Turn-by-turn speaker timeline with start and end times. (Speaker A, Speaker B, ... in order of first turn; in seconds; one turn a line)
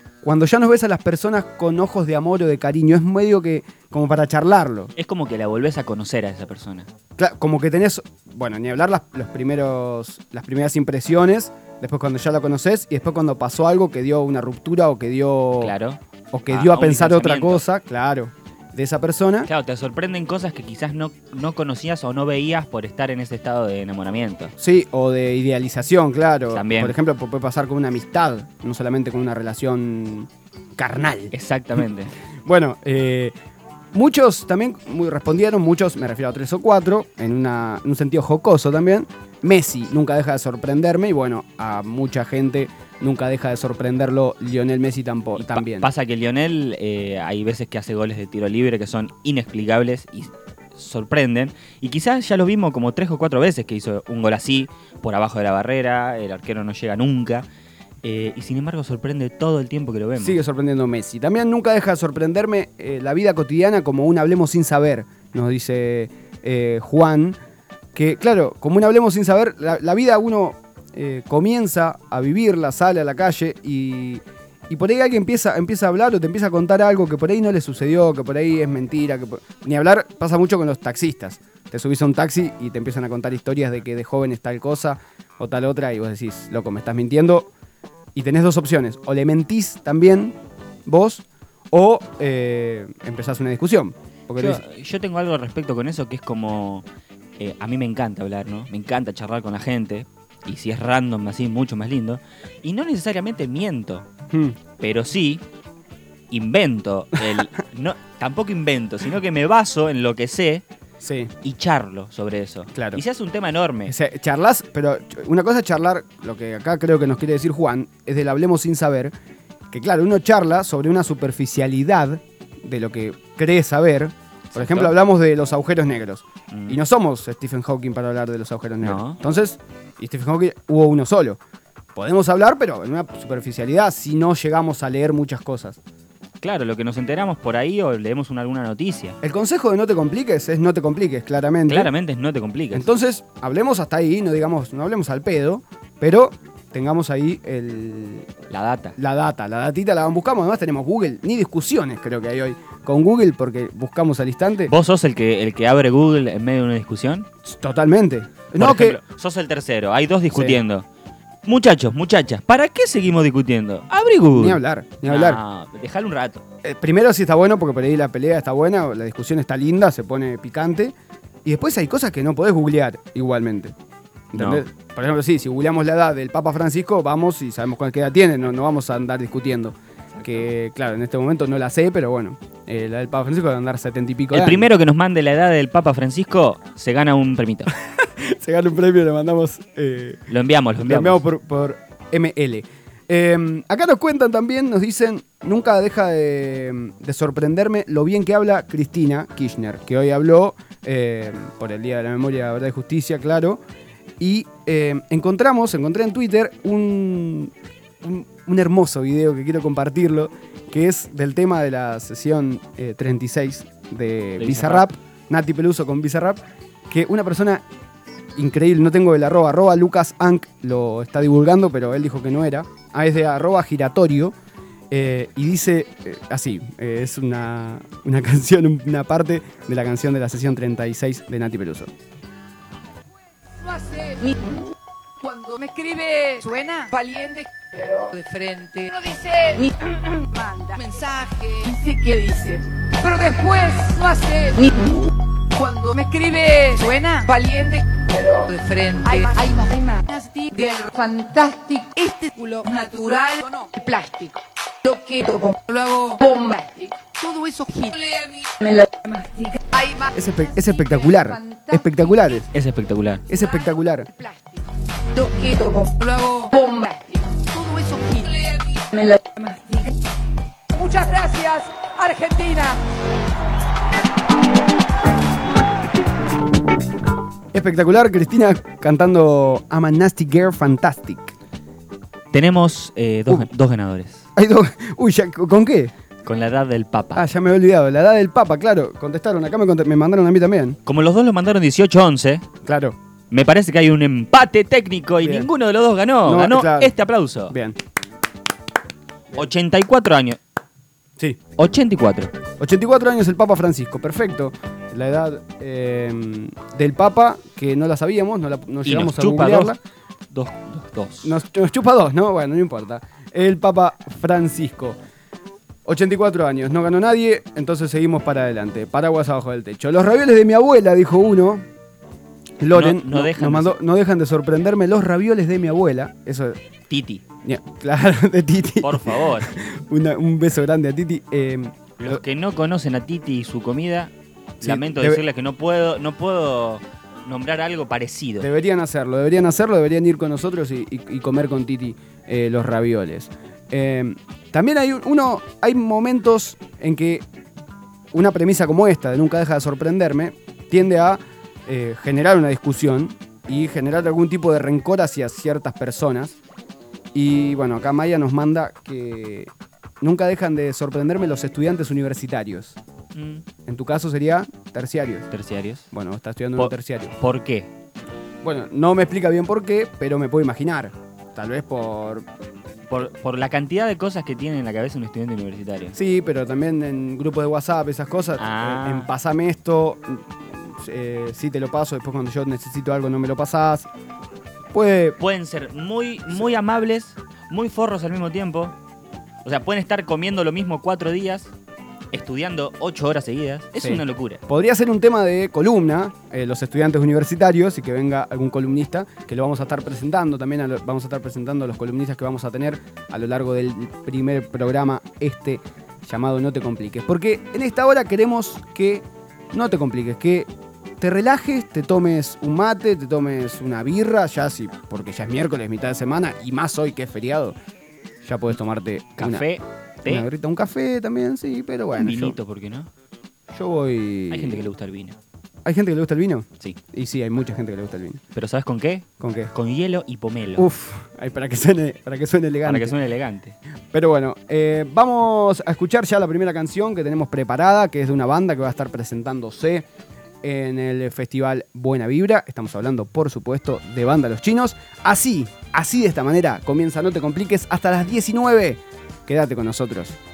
Speaker A: 0.2-4.9
Speaker B: 5.0-6.9
Speaker A: 7.2-15.7
Speaker B: 15.6-16.0
Speaker A: 16.3-19.5
Speaker B: 16.5-17.6
Speaker B: 19.5-24.5
Speaker A: 24.6-31.3
Speaker B: 26.5-26.9
Speaker B: 31.3-32.1
Speaker A: 32.5-33.3
Speaker A: 33.9-45.9
Speaker B: 45.4-57.5
Speaker B: 58.0-60.4
Speaker A: 60.2-67.4
Speaker A: 67.9-87.5
Speaker A: 88.2-94.6
Speaker B: 94.4-96.9
Speaker B: 97.4-104.1
Speaker A: 104.3-104.6
Speaker B: 104.8-105.4
Speaker B: 106.3-110.7
Speaker A: 111.0-111.3
Speaker B: 111.4-114.0
Speaker A: 112.8-113.0
Speaker A: 113.9-119.1
Speaker A: 119.7-131.4
Speaker B: 124.5-125.0
Speaker B: 126.5-126.8
Speaker B: 128.8-129.2
Speaker A: 131.9-135.8
Speaker B: 136.4-139.2
Speaker A: 139.2-141.9
Speaker B: 141.7-142.9
Speaker A: 142.7-148.3
Speaker B: 148.5-149.0
Speaker A: 149.0-154.7
Speaker B: 154.7-157.3
Speaker A: 157.5-159.0
Speaker B: 158.6-160.9
Speaker A: 160.3-160.6
Speaker B: 161.4-166.4
Speaker A: 164.3-165.4
Speaker A: 166.6-170.9
Speaker A: 171.4-173.7
Speaker A: 174.3-184.7
Speaker B: 174.3-174.7
Speaker B: 180.1-180.5
Speaker B: 184.3-187.7
Speaker A: 188.2-190.2
Speaker B: 190.3-191.2
Speaker A: 190.8-203.6
Speaker A: 204.2-217.6
Speaker B: 214.4-214.9
Speaker A: 218.4-224.3
Speaker A: 224.9-231.9
Speaker C: 233.6-234.4
Speaker C: 235.2-244.9
Speaker C: 245.5-260.1
Speaker A: 260.1-262.5
Speaker C: 260.8-262.1
Speaker B: 262.5-263.2
Speaker A: 263.3-264.1
Speaker C: 264.1-264.4
Speaker C: 265.1-269.9
Speaker C: 270.7-272.8
Speaker A: 277.5-281.3
Speaker B: 282.3-284.2
Speaker A: 284.4-285.9
Speaker B: 286.2-287.3
Speaker A: 287.1-290.8
Speaker B: 290.9-292.4
Speaker A: 292.6-293.0
Speaker B: 293.3-297.6
Speaker A: 295.2-295.5
Speaker A: 296.2-296.9
Speaker A: 297.5-297.8
Speaker B: 299.3-300.4
Speaker B: 301.6-302.3
Speaker A: 302.6-309.8
Speaker B: 308.8-309.8
Speaker B: 310.3-311.4
Speaker A: 311.2-315.0
Speaker A: 315.9-321.6
Speaker A: 322.6-326.6
Speaker B: 322.7-323.8
Speaker B: 326.9-327.2
Speaker A: 327.4-332.2
Speaker B: 328.8-329.5
Speaker B: 332.0-338.5
Speaker A: 334.6-335.2
Speaker A: 338.4-347.2
Speaker A: 348.1-356.4
Speaker A: 357.1-359.5
Speaker A: 360.0-362.8
Speaker B: 363.1-363.4
Speaker A: 363.7-365.3
Speaker B: 365.3-365.9
Speaker A: 365.9-367.1
Speaker B: 366.6-367.7
Speaker A: 368.4-372.3
Speaker B: 372.9-376.0
Speaker A: 375.9-383.9
Speaker B: 378.4-379.1
Speaker A: 384.7-385.2
Speaker B: 385.2-388.8
Speaker B: 389.4-391.5
Speaker B: 392.1-394.4
Speaker A: 393.8-410.5
Speaker A: 411.0-417.6
Speaker A: 418.2-419.5
Speaker B: 419.2-420.3
Speaker A: 420.1-422.4
Speaker B: 421.9-422.9
Speaker A: 423.5-424.6
Speaker B: 424.3-425.2
Speaker A: 425.6-428.2
Speaker B: 428.3-430.7
Speaker A: 429.2-429.5
Speaker A: 430.6-432.9
Speaker B: 432.6-433.6
Speaker A: 433.9-439.9
Speaker A: 440.4-450.2